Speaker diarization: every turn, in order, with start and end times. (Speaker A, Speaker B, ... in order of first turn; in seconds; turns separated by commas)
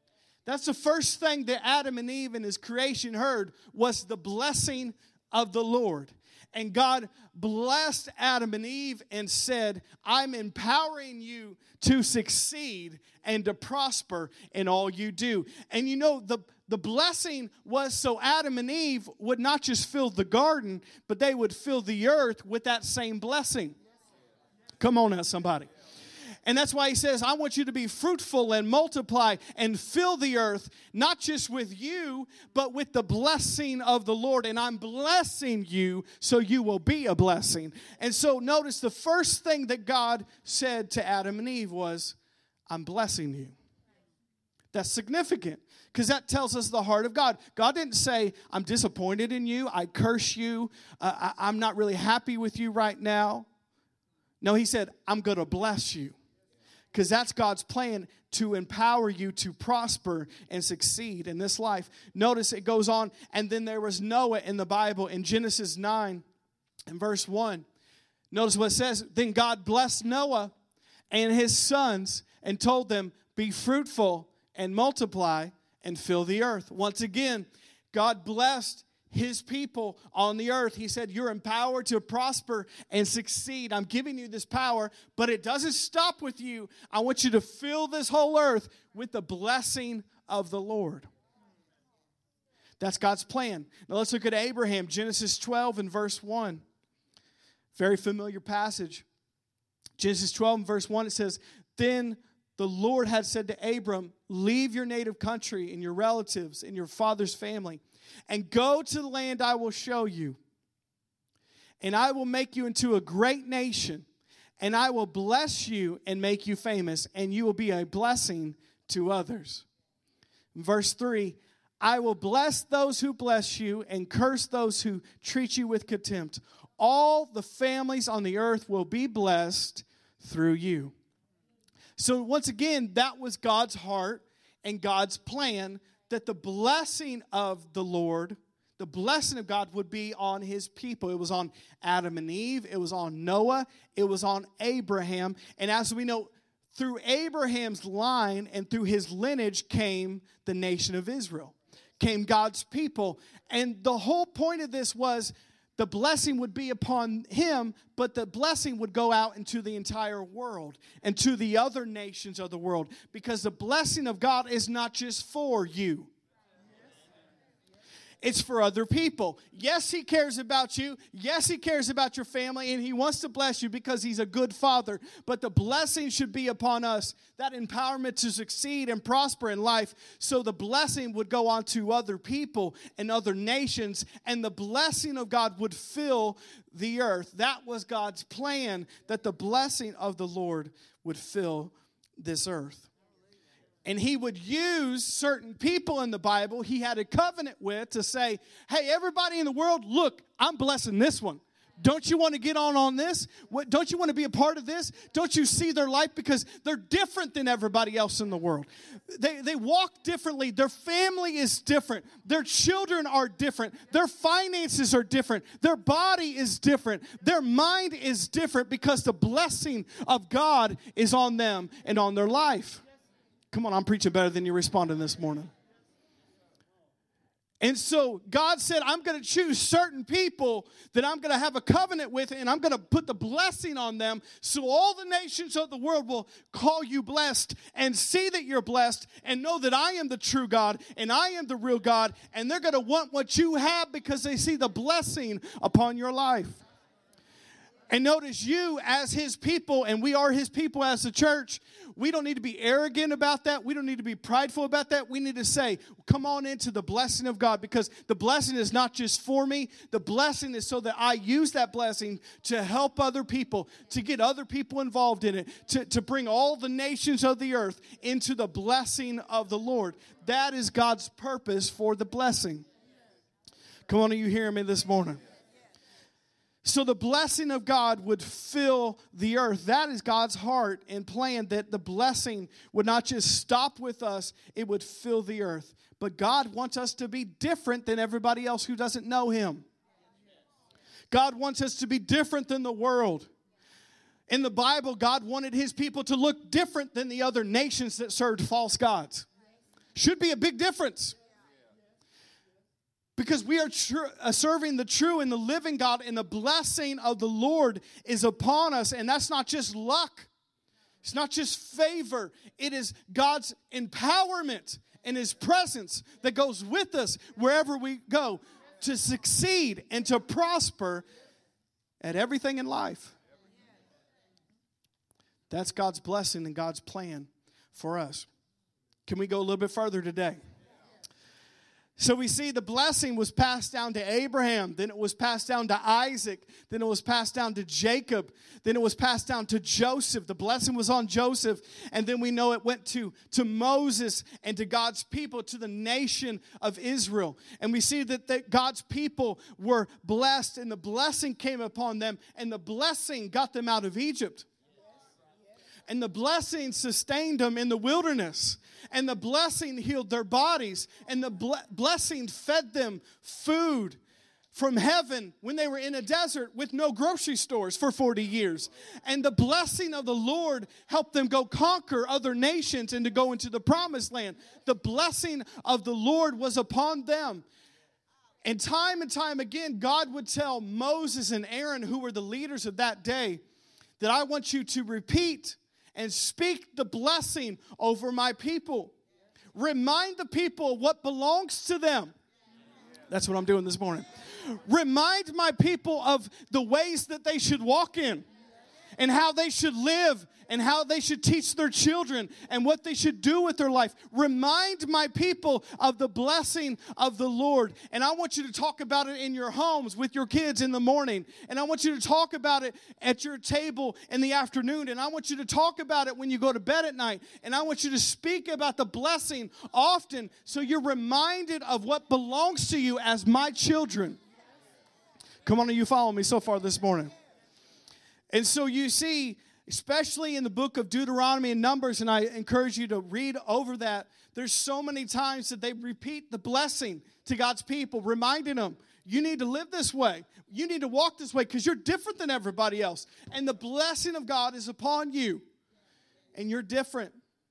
Speaker A: 0.5-23.8, Speaker A: 24.8-25.7, Speaker A: 26.4-42.1, Speaker A: 42.7-43.5, Speaker A: 44.7-53.5, Speaker A: 54.4-56.1, Speaker A: 56.9-66.2, Speaker A: 66.9-67.7, Speaker A: 68.3-70.5, Speaker A: 71.1-91.1, Speaker A: 92.8-96.6, Speaker A: 97.7-99.0, Speaker A: 100.0-110.4, Speaker A: 111.8-114.1, Speaker A: 114.6-119.7, Speaker A: 120.5-130.9, Speaker A: 132.0-166.1, Speaker A: 168.2-192.9, Speaker A: 193.8-222.8, Speaker A: 223.5-225.5, Speaker A: 227.6-246.6, Speaker A: 247.9-272.6, Speaker A: 273.9-275.2, Speaker A: 276.6-289.7, Speaker A: 291.1-293.3, Speaker A: 294.3-299.3, Speaker A: 299.9-301.2, Speaker A: 303.2-310.3, Speaker A: 311.0-321.0, Speaker A: 322.0-323.1, Speaker A: 325.5-328.3, Speaker A: 329.1-330.4, Speaker A: 332.0-354.5, Speaker A: 355.9-364.0, Speaker A: 364.5-377.4, Speaker A: 378.4-383.4, Speaker A: 384.0-388.9, Speaker A: 389.5-392.1, Speaker A: 393.1-398.2, Speaker A: 399.0-424.2, Speaker A: 425.4-427.1, Speaker A: 428.3-445.4, Speaker A: 446.3-447.1